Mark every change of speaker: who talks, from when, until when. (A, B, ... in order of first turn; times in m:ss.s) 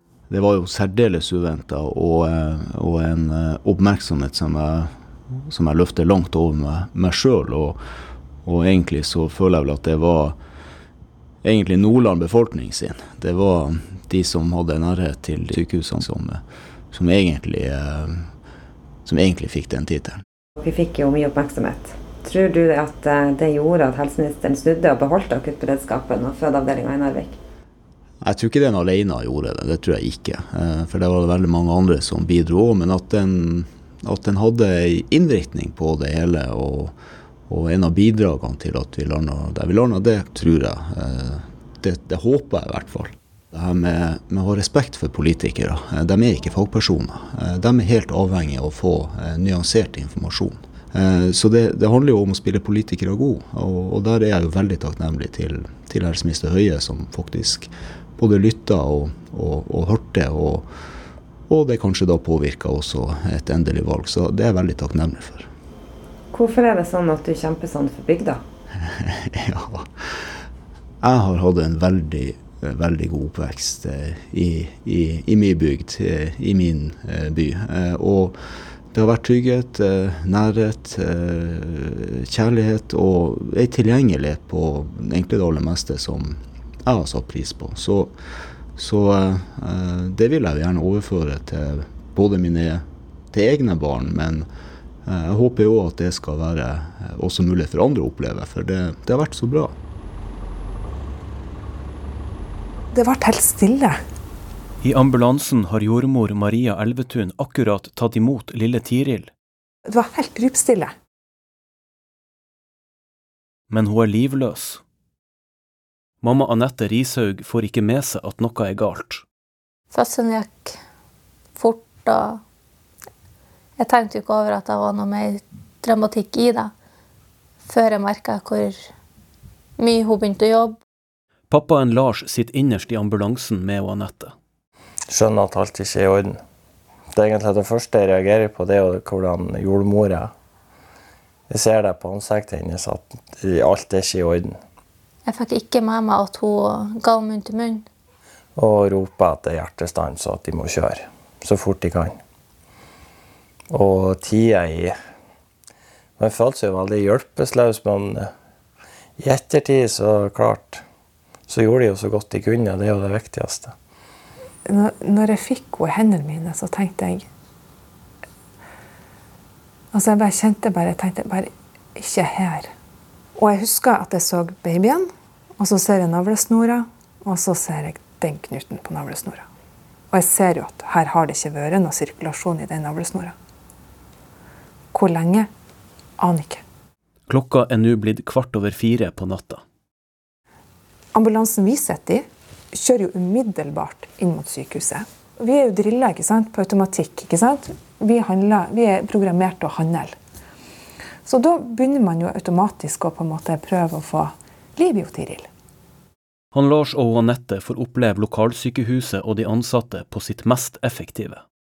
0:00.3-0:07.8 A
0:08.4-0:10.4 A
0:11.4-0:18.3 A
0:19.0-0:20.2 A
0:20.6-0:27.4 B
0:28.2-0:36.9 A
0:37.5-1:00.7 A
1:01.5-1:05.5 A
1:06.3-1:08.4 B
1:08.8-1:10.3 A
1:11.0-1:18.4 A
1:18.9-1:28.1 A
1:28.8-1:34.5 A
1:35.0-1:39.8 A
1:42.9-1:44.0 C
1:44.8-1:49.3 D
1:49.8-1:50.9 C
1:53.7-1:54.8 D
1:56.2-1:59.2 D
1:59.9-2:00.8 E
2:01.6-2:02.4 E
2:03.8-2:06.7 E
2:07.6-2:08.8 E
2:09.8-2:10.8 E
2:11.5-2:14.3 D
2:15.1-2:16.4 F
2:17.1-2:20.3 F
2:21.5-2:24.6 F
2:25.2-2:27.9 E
2:28.6-2:32.2 F
2:33.7-2:35.0 F
2:36.2-2:38.3 F
2:39.2-2:40.8 F
2:41.5-2:43.7 F
2:44.6-2:47.2 C
2:49.9-2:52.7 C
2:53.4-2:59.4 C
3:00.1-3:03.3 C
3:04.9-3:05.5 C
3:06.2-3:06.6 C
3:07.3-3:09.6 D
3:11.1-3:20.1 C
3:21.2-3:25.5 C
3:26.5-3:31.4 D